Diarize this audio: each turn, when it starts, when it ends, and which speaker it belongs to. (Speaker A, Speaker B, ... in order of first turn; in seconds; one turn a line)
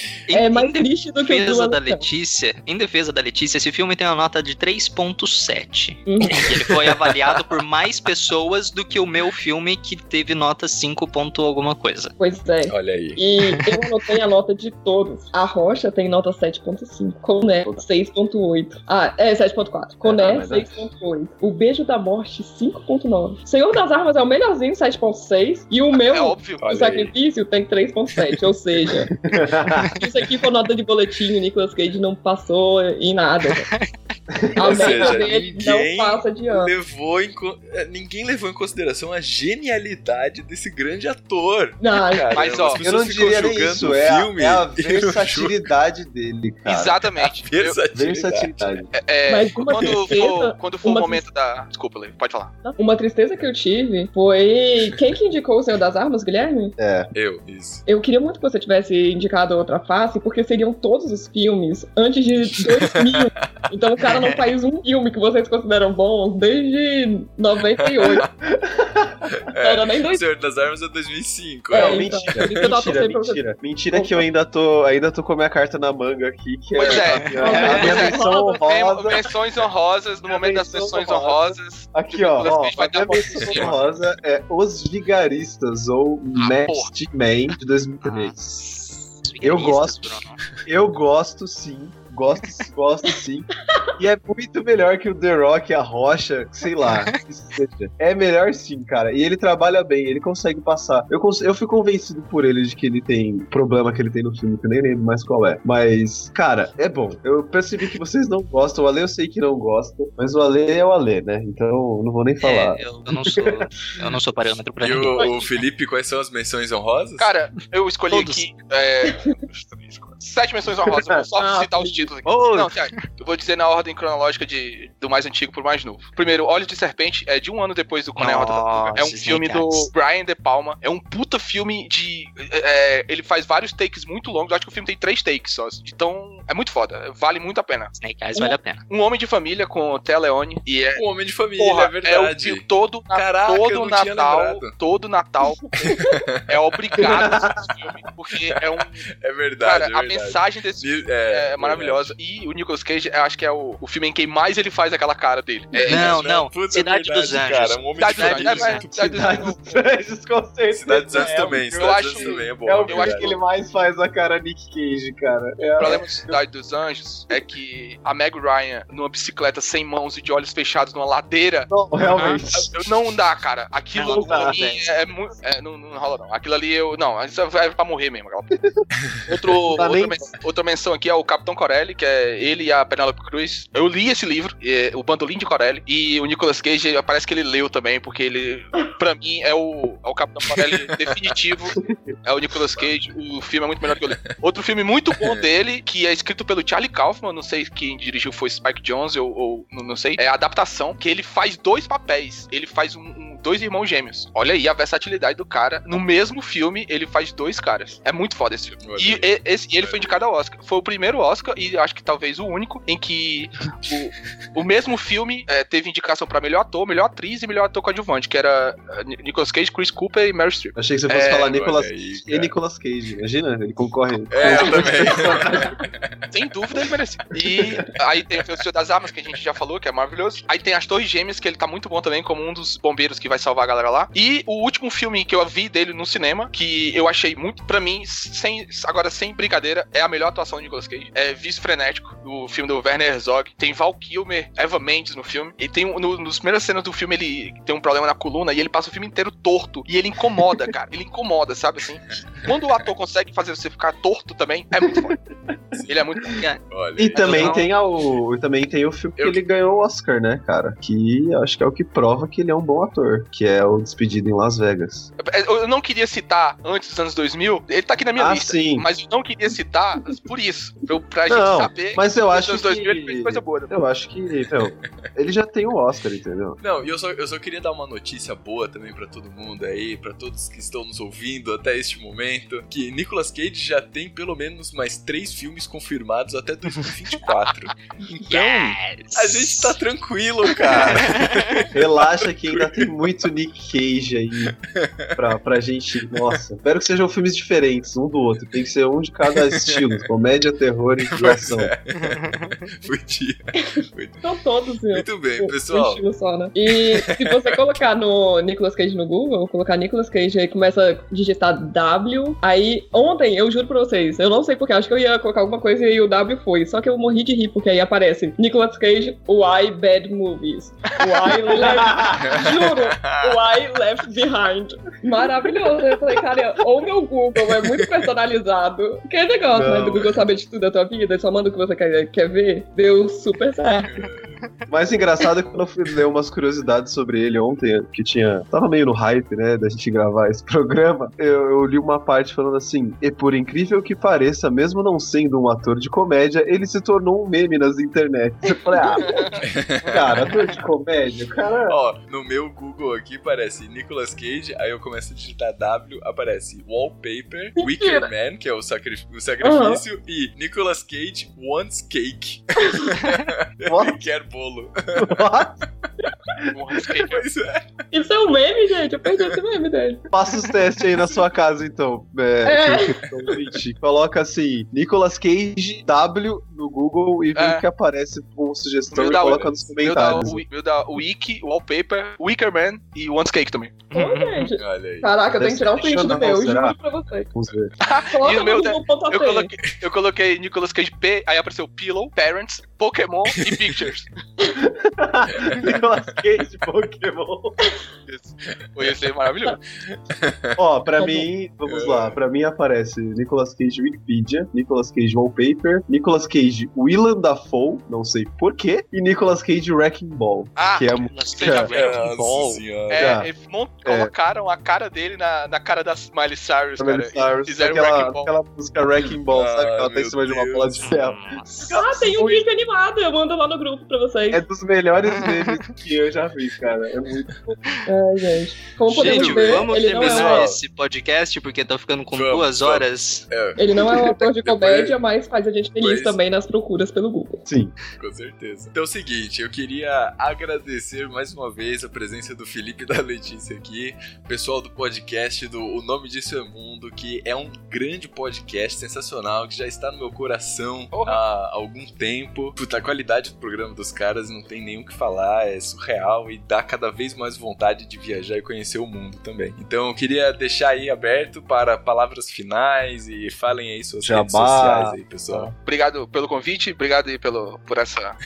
Speaker A: 0.3-12.1
Speaker B: 0.3-2.1
Speaker B: 6.1-6.4
Speaker C: 6.5-7.4
Speaker B: 12.2-29.1
Speaker C: 12.7-13.2
Speaker D: 20.0-20.9
Speaker E: 25.9-26.7
Speaker C: 26.6-27.1
Speaker D: 29.3-29.9
Speaker B: 29.9-33.7
Speaker A: 33.6-33.9
Speaker D: 34.3-35.2
Speaker B: 34.6-36.7
Speaker C: 34.6-45.7
Speaker B: 41.8-42.5
Speaker E: 42.3-42.8
Speaker D: 42.8-47.0
Speaker E: 46.6-47.8
Speaker C: 47.2-48.8
Speaker D: 47.9-48.9
Speaker E: 48.9-52.5
Speaker B: 49.3-51.3
Speaker C: 49.7-50.1
Speaker B: 52.6-56.7
Speaker D: 56.8-57.1
Speaker C: 57.1-57.8
Speaker B: 57.9-68.2
Speaker C: 62.6-63.4
Speaker C: 67.8-68.3
Speaker D: 68.5-69.3
Speaker C: 69.3-72.8
Speaker B: 69.6-70.2
Speaker B: 71.7-73.4
Speaker D: 71.7-79.3
Speaker B: 73.9-74.2
Speaker E: 76.7-83.8
Speaker A: 77.3-78.0
Speaker B: 77.4-78.7
Speaker D: 80.2-88.8
Speaker E: 86.4-86.9
Speaker A: 88.0-90.5
Speaker D: 89.4-113.6
Speaker A: 112.4-115.4
Speaker C: 114.8-117.3
Speaker E: 117.2-137.9
Speaker A: 118.1-118.5
Speaker B: 119.0-119.3
Speaker D: 120.8-121.2
Speaker B: 121.4-122.1
Speaker D: 122.2-122.7
Speaker A: 128.2-129.9
Speaker A: 137.9-138.8
Speaker E: 138.9-141.0
Speaker C: 141.0-144.7
Speaker E: 141.6-145.7
Speaker B: 145.7-146.1
Speaker C: 145.8-147.2
Speaker E: 146.5-149.0
Speaker D: 147.0-147.6
Speaker C: 148.5-152.2
Speaker E: 149.6-156.2
Speaker C: 155.7-159.4
Speaker A: 155.9-158.8
Speaker E: 157.9-159.8
Speaker D: 158.9-166.4
Speaker C: 160.7-163.3
Speaker E: 161.2-163.4
Speaker E: 165.8-171.7
Speaker D: 171.7-172.7
Speaker E: 172.2-178.5
Speaker A: 173.9-174.8
Speaker D: 174.0-174.8
Speaker D: 178.6-178.8
Speaker E: 179.3-221.5
Speaker D: 179.6-180.3
Speaker C: 190.5-190.9
Speaker C: 208.8-210.2
Speaker D: 220.8-225.7
Speaker C: 221.5-222.5
Speaker C: 224.3-226.0
Speaker E: 226.3-255.2
Speaker C: 252.1-252.5
Speaker E: 255.8-256.3
Speaker C: 256.7-257.6
Speaker D: 257.0-265.1
Speaker E: 257.1-257.7
Speaker A: 257.2-257.6
Speaker E: 265.2-273.7
Speaker D: 268.2-268.9
Speaker D: 271.3-276.6
Speaker C: 274.5-274.8
Speaker C: 276.6-292.9
Speaker A: 288.3-289.8
Speaker A: 290.6-291.3
Speaker D: 291.7-294.6
Speaker C: 294.7-295.1
Speaker D: 295.2-301.7
Speaker C: 299.3-299.9
Speaker C: 301.1-304.2
Speaker B: 304.2-333.9
Speaker C: 304.9-306.0
Speaker C: 306.7-307.6
Speaker D: 321.6-322.3
Speaker C: 322.2-323.5
Speaker D: 329.5-330.2
Speaker C: 333.9-334.4
Speaker D: 334.7-349.3
Speaker C: 349.4-350.4
Speaker D: 349.9-351.8
Speaker C: 351.7-365.2
Speaker B: 357.6-358.1
Speaker B: 359.4-359.8
Speaker D: 363.7-364.0
Speaker D: 365.0-365.6
Speaker E: 366.5-367.2
Speaker C: 367.1-367.7
Speaker B: 367.9-370.0
Speaker D: 370.1-380.4
Speaker B: 372.4-373.0
Speaker E: 377.3-377.6
Speaker E: 378.9-383.9
Speaker C: 379.0-380.1
Speaker B: 383.9-387.3
Speaker A: 383.9-384.2
Speaker C: 384.6-385.1
Speaker D: 385.4-386.8
Speaker D: 387.3-387.7
Speaker E: 387.8-394.1
Speaker B: 388.1-389.5
Speaker C: 393.4-393.9
Speaker D: 394.6-397.6
Speaker E: 398.1-399.6
Speaker C: 399.8-400.6
Speaker D: 400.6-411.7
Speaker C: 401.6-402.2
Speaker E: 410.6-411.7
Speaker A: 410.9-412.6
Speaker C: 411.8-413.1
Speaker E: 412.9-418.3
Speaker D: 413.0-413.3
Speaker D: 413.8-414.1
Speaker D: 416.8-422.4
Speaker C: 419.3-420.9
Speaker A: 420.8-421.8
Speaker B: 421.6-424.4
Speaker D: 424.3-427.6
Speaker B: 427.9-430.5
Speaker A: 428.9-433.2
Speaker C: 429.0-430.6
Speaker C: 432.1-434.9
Speaker B: 433.6-437.4
Speaker C: 435.8-436.2
Speaker D: 437.4-437.7
Speaker C: 437.9-465.5
Speaker E: 450.9-451.2
Speaker D: 464.0-465.5
Speaker E: 465.6-468.2